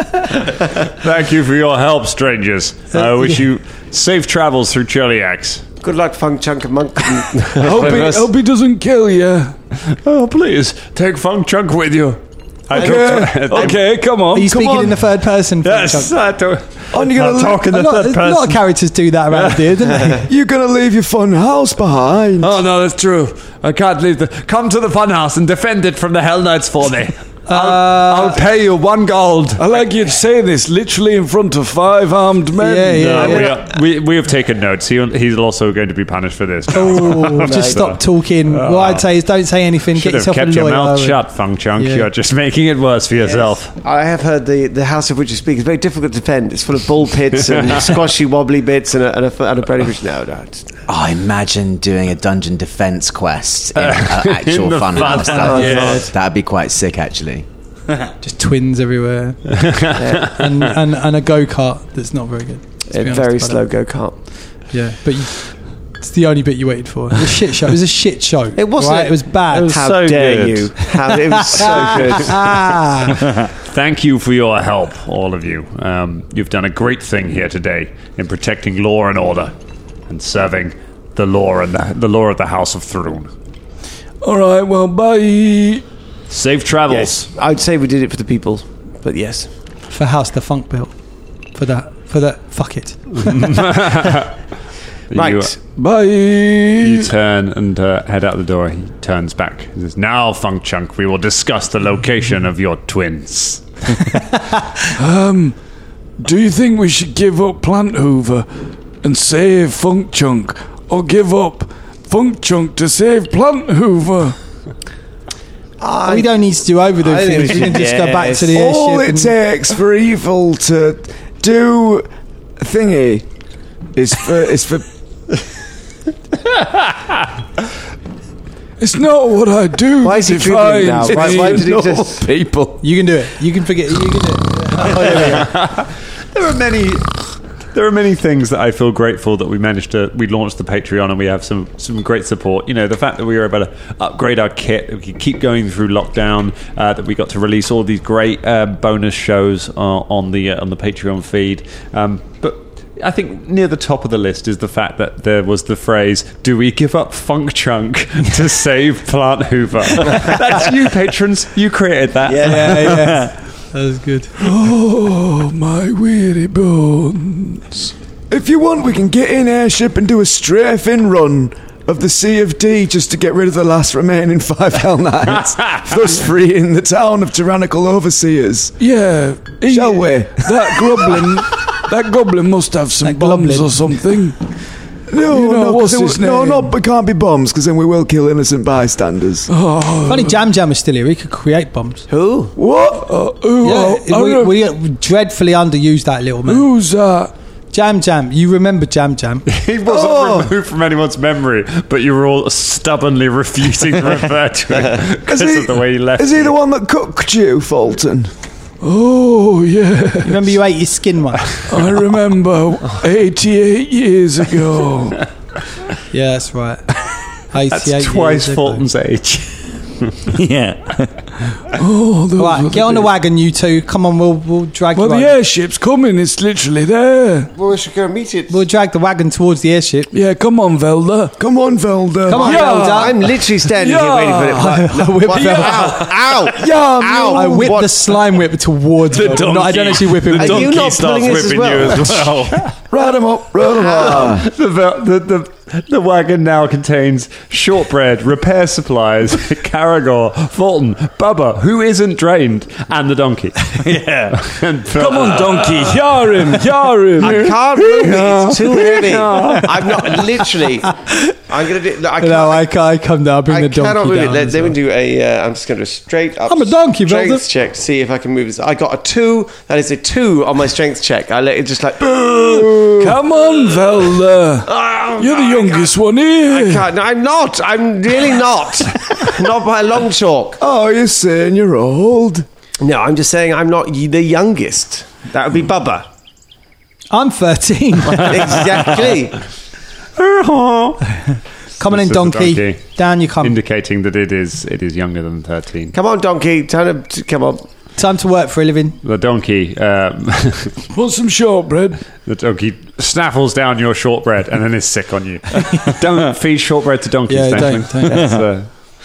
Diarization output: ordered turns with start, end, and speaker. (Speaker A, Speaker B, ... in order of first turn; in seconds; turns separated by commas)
Speaker A: 1.0-5.6, Speaker B: 3.0-3.3, Speaker C: 5.8-8.3, Speaker D: 7.6-9.6, Speaker A: 9.8-13.8, Speaker C: 12.7-13.8, Speaker E: 12.7-13.4, Speaker D: 12.8-14.6, Speaker B: 14.3-16.1, Speaker E: 14.5-14.9, Speaker A: 15.6-18.6, Speaker E: 16.9-17.7, Speaker B: 17.6-20.3, Speaker A: 19.3-20.1, Speaker E: 20.3-22.6, Speaker A: 22.4-29.6, Speaker B: 27.5-28.4, Speaker D: 29.6-33.4, Speaker B: 32.5-33.6, Speaker A: 33.0-39.1, Speaker C: 33.2-33.5, Speaker B: 36.7-41.2, Speaker C: 37.4-37.8, Speaker A: 39.9-43.7, Speaker B: 41.8-42.1, Speaker C: 43.2-50.6, Speaker F: 50.9-57.5, Speaker A: 53.8-56.0, Speaker C: 55.1-56.1, Speaker G: 55.5-56.0, Speaker B: 58.2-59.6, Speaker A: 59.5-60.3, Speaker C: 59.9-60.3, Speaker B: 60.2-63.6, Speaker C: 62.9-64.2, Speaker B: 64.7-69.8, Speaker C: 68.5-72.6, Speaker G: 69.5-70.7, Speaker B: 71.1-73.2, Speaker A: 73.6-79.5, Speaker A: 80.1-83.3, Speaker D: 84.2-85.8, Speaker A: 86.3-87.3, Speaker C: 86.9-89.5, Speaker B: 89.9-90.9, Speaker B: 91.5-93.5, Speaker A: 93.2-94.3, Speaker A: 95.1-95.5, Speaker C: 95.1-95.5, Speaker D: 95.7-97.1, Speaker A: 96.8-103.6, Speaker D: 105.0-105.6, Speaker D: 106.2-108.5, Speaker D: 109.0-114.3, Speaker C: 115.8-116.3, Speaker B: 116.0-119.3, Speaker C: 117.0-118.5, Speaker E: 118.5-122.1, Speaker E: 122.6-123.2, Speaker E: 123.9-124.8, Speaker D: 128.8-131.8, Speaker C: 130.0-132.2, Speaker E: 131.0-132.8, Speaker B: 132.8-135.5, Speaker C: 135.0-135.4, Speaker A: 135.2-163.1, Speaker C: 162.3-162.9, Speaker B: 162.4-164.3, Speaker D: 164.4-167.9, Speaker E: 168.3-178.7, Speaker A: 175.5-175.9, Speaker D: 178.8-184.4, Speaker E: 179.7-180.5, Speaker B: 183.0-184.0, Speaker E: 185.1-189.5, Speaker D: 185.2-186.7, Speaker D: 189.5-190.4, Speaker B: 190.1-192.0, Speaker C: 192.1-192.5, Speaker E: 192.6-193.1, Speaker D: 193.0-194.5, Speaker B: 193.6-196.7, Speaker D: 196.4-197.3, Speaker B: 197.7-199.5, Speaker A: 199.5-206.5, Speaker E: 199.8-200.5, Speaker E: 205.2-208.3, Speaker D: 208.8-210.5, Speaker B: 210.2-211.6, Speaker D: 211.7-215.2, Speaker B: 216.1-216.8, Speaker B: 217.5-218.8, Speaker A: 217.7-220.1, Speaker G: 220.3-221.1, Speaker D: 221.7-223.1, Speaker B: 222.4-225.3, Speaker D: 224.9-227.5, Speaker C: 227.5-228.6, Speaker B: 228.5-230.1, Speaker D: 230.1-231.3, Speaker E: 231.4-232.6, Speaker B: 232.2-233.2, Speaker D: 232.4-234.7, Speaker C: 232.4-238.0, Speaker B: 234.6-236.2, Speaker D: 235.4-236.0, Speaker E: 236.5-237.8, Speaker B: 237.2-240.7, Speaker D: 239.2-240.8, Speaker G: 239.2-242.6, Speaker C: 240.3-242.3, Speaker E: 242.9-244.4, Speaker C: 243.8-244.3, Speaker A: 244.1-253.7, Speaker G: 253.8-254.4, Speaker A: 254.3-256.4, Speaker D: 254.9-258.1, Speaker C: 257.2-260.9, Speaker A: 257.2-260.2, Speaker C: 261.5-262.7, Speaker B: 262.2-264.8, Speaker C: 263.5-273.8, Speaker B: 266.4-267.4, Speaker E: 272.0-273.2, Speaker D: 272.8-276.9, Speaker C: 274.7-275.9, Speaker C: 276.5-280.6, Speaker E: 280.6-282.4, Speaker C: 282.8-286.1, Speaker B: 287.1-288.6, Speaker C: 288.1-289.4, Speaker A: 290.2-291.1, Speaker B: 291.8-293.6, Speaker A: 291.8-295.9, Speaker C: 295.9-297.6, Speaker B: 298.0-299.0, Speaker A: 299.0-300.8, Speaker D: 300.9-302.0, Speaker A: 302.2-308.7, Speaker B: 307.3-308.2